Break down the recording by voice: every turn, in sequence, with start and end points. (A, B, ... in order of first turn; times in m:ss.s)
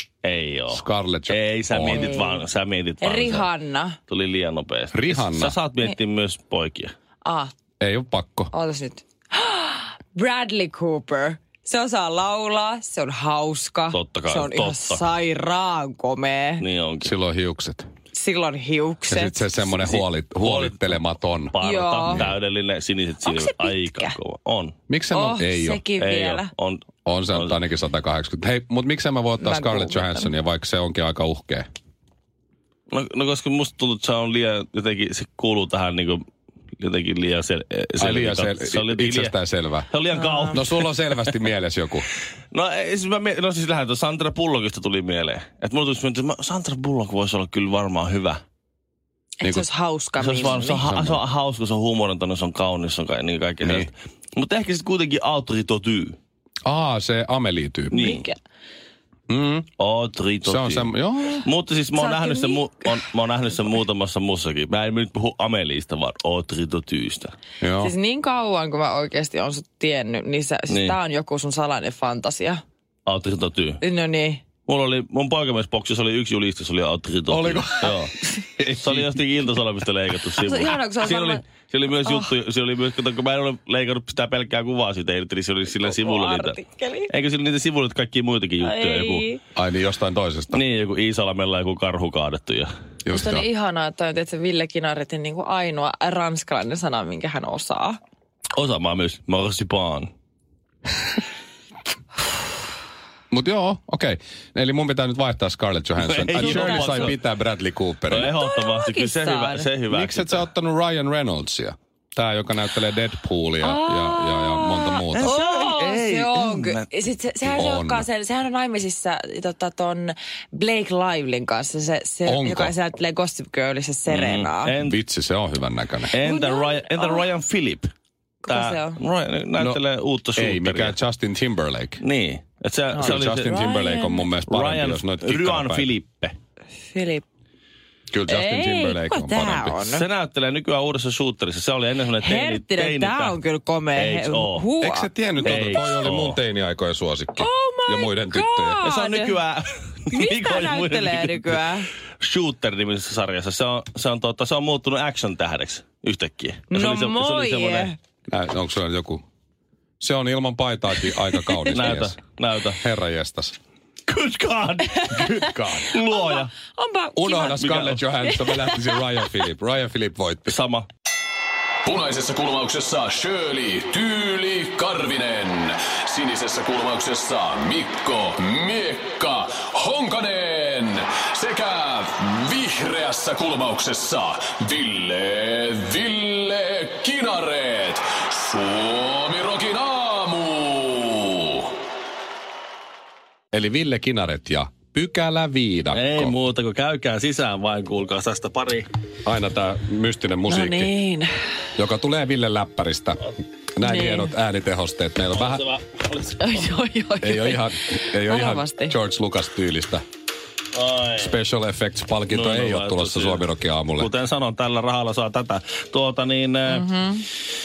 0:00.2-0:03.5 A
0:00.7-0:02.1 B
0:01.9-0:02.4 C
0:03.0-0:04.0 C
0:04.1-0:06.9 A
0:04.9-0:05.6 B
0:07.2-0:07.5 C
0:07.8-0:08.5 B
0:08.5-0:16.6 C
0:13.9-0:15.1 A
0:16.6-0:17.1 A
0:17.0-0:17.9 B
0:18.1-0:19.7 C
0:19.1-0:21.5 B
0:19.8-0:24.8 A
0:21.6-0:22.3 C
0:22.1-0:22.3 B
0:23.2-0:24.2 C
0:24.9-0:25.8 B
0:25.1-0:26.5 C
0:26.0-0:27.6 A
0:27.1-0:31.7 B
0:29.4-0:30.3 C
0:32.9-0:36.2 A
0:36.8-0:39.4 A
0:38.0-0:39.9 B
0:39.9-0:41.1 A
0:40.1-0:40.6 C
0:40.5-0:42.1 B
0:42.5-0:48.4 A
0:49.4-0:51.0 C
0:50.2-0:56.2 A
0:50.6-0:51.2 B
0:53.6-0:53.9 B
0:56.6-0:58.2 B
0:57.9-0:58.2 A
0:57.9-0:58.4 C
0:59.3-0:59.7 B
0:59.8-1:00.9 A
1:00.4-1:01.5 B
1:01.4-1:07.4 A
1:02.0-1:03.6 C
1:07.6-1:07.9 B
1:07.8-1:12.6 C
1:10.7-1:11.0 A
1:13.1-1:13.8 A
1:13.8-1:14.4 C
1:14.7-1:18.1 A
1:17.3-1:19.1 B
1:18.8-1:29.3 A
1:20.4-1:22.3 C
1:25.8-1:27.1 C
1:28.6-1:29.4 C
1:29.6-1:30.6 B
1:30.5-1:32.7 A
1:33.1-1:33.5 B
1:33.1-1:38.0 C
1:38.6-1:40.1 A
1:43.3-1:48.3 B
1:46.0-1:47.2 A
1:46.3-1:47.2 C
1:48.1-1:50.5 A
1:48.2-1:49.7 C
1:49.9-1:55.4 B
1:53.6-2:04.7 C
1:55.1-1:56.9 A
1:57.5-1:58.1 B
2:02.3-2:02.7 B
2:04.1-2:05.0 A
2:04.8-2:06.1 B
2:06.1-2:07.9 A
2:06.2-2:07.2 C
2:08.4-2:09.0 C
2:08.5-2:11.0 A
2:10.4-2:12.0 B
2:12.0-2:13.5 A
2:12.9-2:14.3 C
2:13.0-2:15.9 B
2:14.5-2:16.4 A
2:16.9-2:17.2 C
2:18.1-2:19.8 B
2:18.3-2:20.0 C
2:19.8-2:23.4 A
2:22.2-2:25.2 C
2:23.9-2:24.6 A
2:24.8-2:28.8 B
2:25.4-2:26.4 A
2:27.4-2:29.4 C
2:28.8-2:31.6 A
2:30.1-2:31.9 C
2:32.2-2:37.9 A
2:36.7-2:38.0 C
2:38.3-2:39.2 B
2:40.0-2:42.2 B
2:41.3-2:41.8 C
2:41.7-2:42.8 A
2:42.8-2:43.6 B
2:44.1-2:46.5 A
2:44.9-2:49.5 C
2:45.2-2:45.9 B
2:47.2-2:50.6 B
2:47.6-2:48.0 A
2:50.5-2:50.9 A
2:51.8-3:11.7 D
3:13.5-3:16.4 B
3:15.9-3:18.9 A
3:19.2-3:20.9 B
3:20.5-3:21.3 C
3:21.8-3:25.6 B
3:23.8-3:24.4 C
3:25.3-3:26.5 A
3:26.4-3:28.9 C
3:27.2-3:30.0 B
3:30.7-3:31.4 A
3:31.2-3:34.1 B
3:32.3-3:33.5 A
3:34.0-3:36.9 A
3:36.7-3:37.3 C